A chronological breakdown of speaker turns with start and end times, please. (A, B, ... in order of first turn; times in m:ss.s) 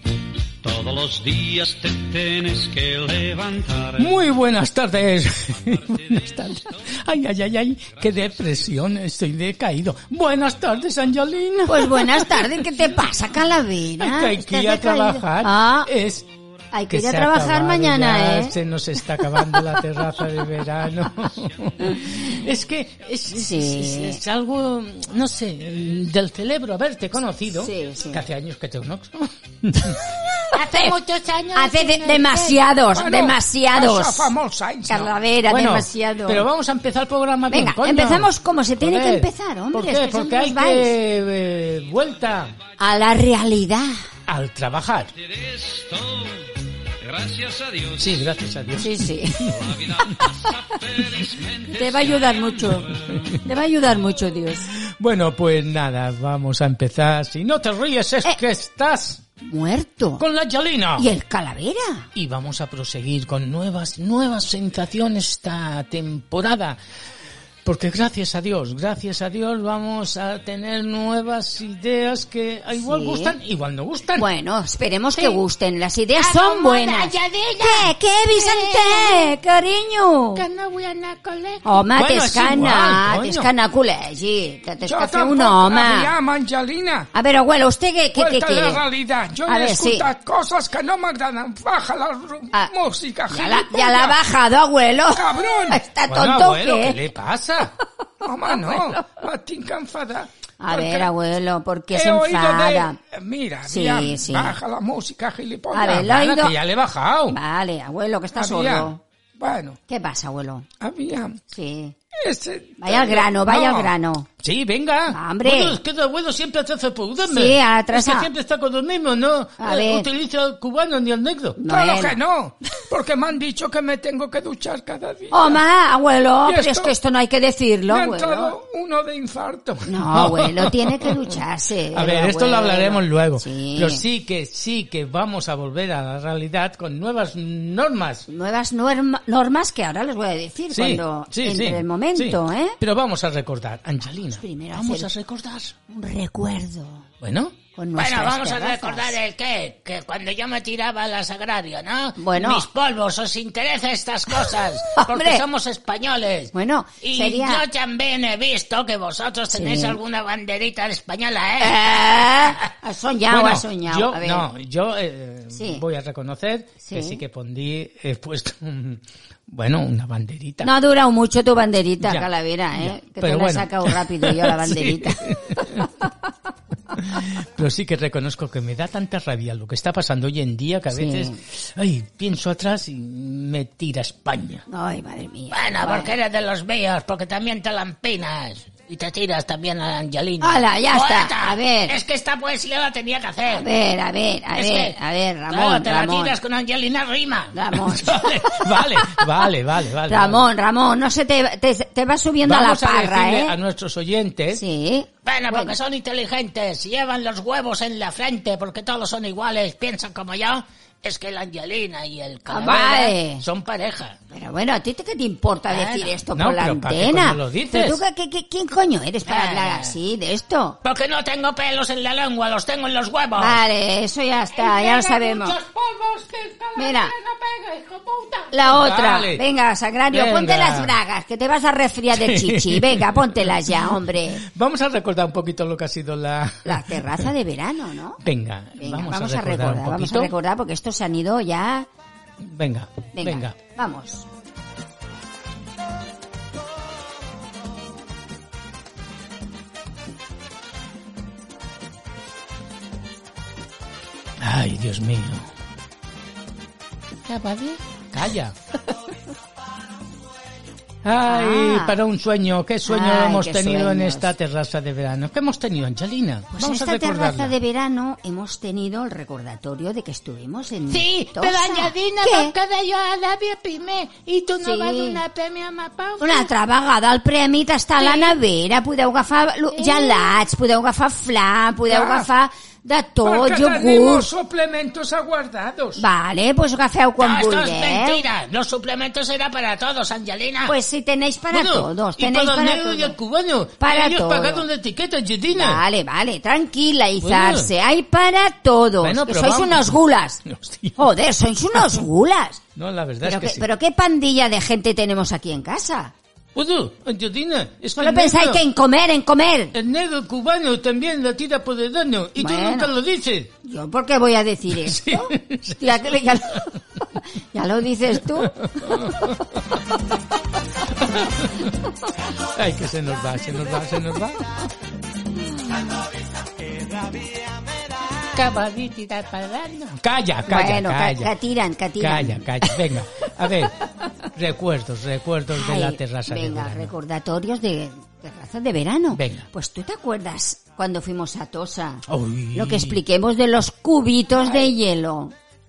0:00.6-0:04.1 A
0:04.0-0:12.6 B
0:05.6-0:07.0 A
0:07.9-0:08.6 A
0:11.7-0:15.9 C
0:14.0-0:16.3 B
0:16.7-0:18.6 C
0:16.9-0:30.2 B
0:19.4-0:19.6 C
0:23.3-0:24.2 C
0:27.6-0:28.2 C
0:30.5-0:30.9 C
0:30.5-0:32.6 D
0:31.5-0:34.3 C
0:32.9-0:35.1 E
0:34.9-0:36.4 C
0:35.4-0:42.5 B
0:37.5-0:40.9 C
0:42.8-0:44.0 C
0:44.3-0:45.1 B
0:45.2-0:48.4 A
0:48.0-0:50.1 B
0:48.8-0:49.4 C
0:49.5-0:53.4 A
0:51.7-0:54.7 C
0:54.8-0:59.2 B
0:59.4-1:00.2 C
1:00.2-1:01.1 B
1:01.0-1:02.1 C
1:02.1-1:06.8 B
1:07.6-1:14.3 B
1:12.7-1:13.4 C
1:14.2-1:20.4 C
1:16.2-1:19.3 D
1:20.3-1:21.6 D
1:21.6-1:26.1 C
1:22.0-1:23.5 B
1:24.8-1:27.1 E
1:27.1-1:28.8 C
1:28.1-1:34.2 E
1:29.4-1:30.1 C
1:33.3-1:37.0 C
1:35.1-1:35.8 E
1:36.1-1:37.7 B
1:38.2-1:41.1 E
1:38.5-1:38.9 C
1:40.6-1:43.0 C
1:41.9-1:46.1 E
1:43.7-1:44.6 C
1:45.7-1:46.5 C
1:45.8-1:47.4 B
1:47.3-1:49.0 C
1:48.4-1:49.8 E
1:49.9-1:50.6 C
1:50.8-1:51.4 E
1:51.5-1:51.9 C
1:52.2-1:53.9 E
1:52.8-1:54.3 C
1:54.4-2:01.6 B
1:55.1-1:55.8 C
1:57.2-1:58.3 C
1:59.6-2:00.1 C
2:01.6-2:02.2 C
2:01.6-2:05.6 E
2:05.3-2:08.5 C
2:06.4-2:06.9 E
2:07.9-2:09.8 E
2:09.9-2:14.0 C
2:10.0-2:11.4 B
2:11.9-2:18.3 B
2:18.3-2:22.8 C
2:20.7-2:25.8 B
2:24.3-2:25.1 C
2:25.9-2:27.1 C
2:27.2-2:27.6 B
2:27.7-2:29.2 C
2:28.0-2:41.9 D
2:32.2-2:32.7 C
2:34.4-2:35.4 C
2:36.5-2:37.6 C
2:39.5-2:40.0 C
2:41.6-2:44.5 C
2:43.3-2:50.7 B
2:45.5-2:45.8 C
2:46.8-2:47.2 C
2:50.6-2:55.3 C
2:52.0-2:55.9 B
2:56.9-3:04.6 B
3:00.9-3:01.4 C
3:04.7-3:06.1 C
3:05.5-3:13.7 D
3:10.4-3:12.0 C
3:13.5-3:16.4 C
3:14.6-3:14.9 D
3:15.5-3:17.5 D
3:17.5-3:19.2 C
3:17.7-3:20.4 B
3:20.1-3:23.6 C
3:22.4-3:24.6 B
3:24.5-3:25.7 C
3:25.2-3:34.1 D
3:32.4-3:33.4 C
3:34.3-3:40.8 C
3:35.7-3:36.1 D
3:36.3-3:38.0 B
3:39.3-3:39.8 D
3:40.8-3:43.6 D
3:43.4-3:45.6 C
3:44.5-3:48.5 D
3:46.8-3:47.1 C
3:48.5-3:54.4 C
3:48.6-3:49.4 B
3:50.1-3:50.9 B
3:52.1-3:57.3 B
3:56.6-3:58.2 C
3:58.2-4:00.3 B
3:58.8-4:01.9 C
4:02.4-4:03.6 B
4:03.1-4:04.2 C
4:14.4-4:15.5 B
4:17.3-4:17.8 D
4:18.1-4:18.6 B
4:21.0-4:27.5 B
4:21.2-4:22.0 C
4:22.8-4:24.3 C
4:26.5-4:32.5 C
4:30.9-4:36.5 D
4:34.6-4:35.2 C
4:36.2-4:44.3 C
4:38.0-4:38.4 D
4:39.7-4:40.4 D
4:41.9-4:42.3 E
4:43.2-4:46.0 E
4:46.0-4:48.2 C
4:47.2-4:50.7 D
4:50.6-4:53.2 C
4:51.5-4:55.8 B
4:53.8-4:54.6 C
4:55.5-5:00.4 C
4:57.2-4:57.7 B
4:59.0-5:01.0 B
5:01.0-5:02.6 C
5:01.8-5:02.0 B
5:02.8-5:03.7 B
5:03.2-5:06.1 C
5:06.5-5:08.6 B
5:08.0-5:09.7 C
5:09.7-5:13.5 B
5:12.4-5:12.9 C
5:13.6-5:16.8 C
5:14.8-5:16.6 B
5:17.5-5:19.3 C
5:18.3-5:19.6 B
5:20.9-5:21.7 B
5:22.4-5:24.5 B
5:25.6-5:26.0 C
5:28.1-5:29.9 D
5:29.9-5:31.3 B
5:30.5-5:32.8 C
5:32.0-5:33.7 B
5:34.3-5:36.9 B
5:35.5-5:45.3 C
5:39.1-5:39.5 B
5:42.1-5:43.0 B